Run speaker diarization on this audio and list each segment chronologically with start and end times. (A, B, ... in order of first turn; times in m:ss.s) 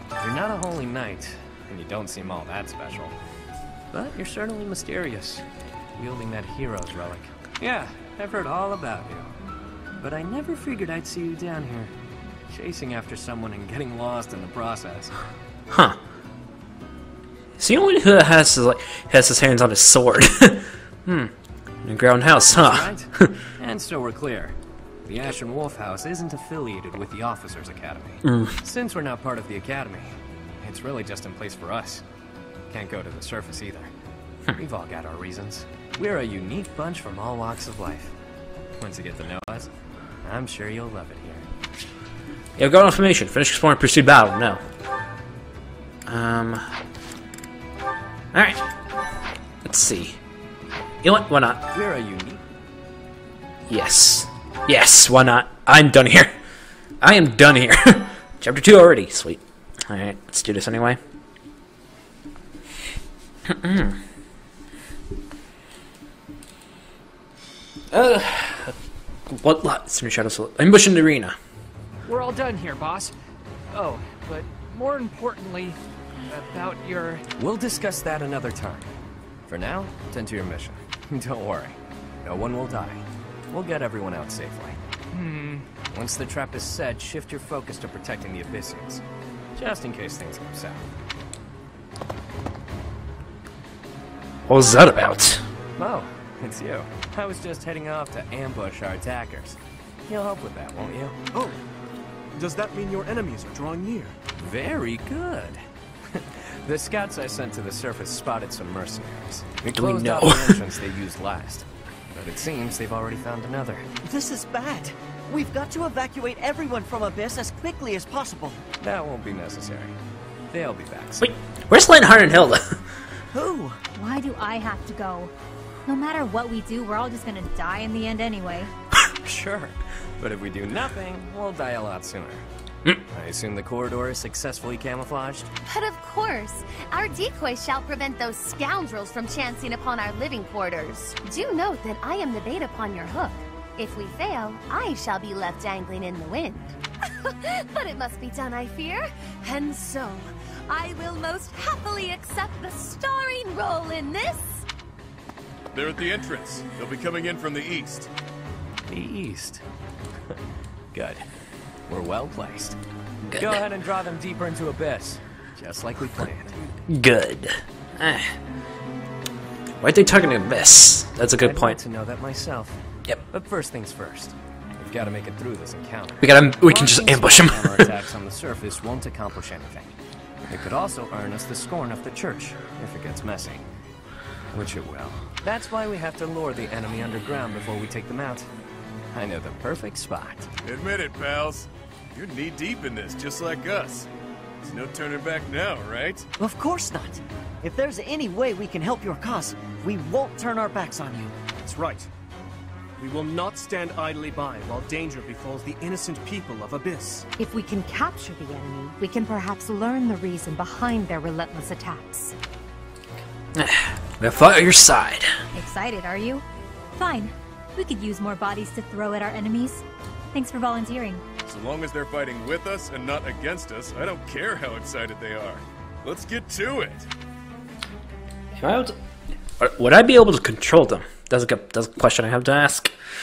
0:00.2-0:03.2 A
0:03.9-0:05.4 A
0:06.0-0:09.4 A
0:10.0-0:11.9 A
0:12.5-0:15.1 A
0:15.7-0:16.0 B
0:17.6-0:21.3 B
0:21.8-0:23.3 B
0:22.5-0:32.0 A
0:28.2-0:28.6 B
0:32.7-0:33.9 A
0:34.5-0:38.1 A
0:38.8-0:39.7 A
0:40.2-0:41.5 A
0:42.6-0:44.6 B
0:46.1-0:46.6 B
0:48.3-0:48.6 B
0:49.6-0:50.2 B
0:51.0-0:51.6 B
0:51.7-0:52.5 A
0:53.7-0:56.3 B
0:57.0-1:01.0 B
1:03.5-1:04.0 B
1:07.9-1:08.8 B
1:09.3-1:11.4 B
1:12.0-1:13.1 C
1:13.7-1:17.3 C
1:17.4-1:18.9 A
1:19.5-1:24.8 A
1:25.1-1:25.7 C
1:25.9-1:29.0 A
1:29.6-1:30.9 A
1:34.5-1:35.4 B
1:35.8-1:41.2 A
1:42.4-1:44.2 D
1:44.4-1:45.6 A
1:46.1-1:53.9 A
1:49.6-1:50.6 B
1:54.0-1:58.6 E
1:58.8-2:00.0 A
2:00.5-2:01.3 A
2:01.2-2:02.8 B
2:03.3-2:03.8 E
2:04.0-2:05.3 F
2:05.9-2:08.7 F
2:09.2-2:12.4 A
2:13.1-2:15.5 A
2:15.7-2:34.7 G
2:35.7-2:38.1 H
2:38.9-2:39.6 A
2:40.9-2:41.2 A
2:41.9-2:42.8 A
2:43.3-2:43.6 B
2:43.4-2:46.6 A
2:46.9-2:48.4 B
2:49.8-2:51.8 B
2:51.4-2:52.8 A
2:53.3-3:00.0 A
2:56.2-2:57.9 B
3:00.5-3:03.6 A
3:04.5-3:08.5 A
3:09.1-3:10.5 A
3:10.6-3:14.1 H
3:14.6-3:16.3 H
3:16.4-3:21.4 E
3:21.6-3:22.1 D
3:23.0-3:27.3 D
3:27.4-3:32.4 I
3:33.6-3:35.3 B
3:35.5-3:41.2 F
3:41.5-3:47.1 H
3:48.6-3:49.0 B
3:49.6-3:52.9 B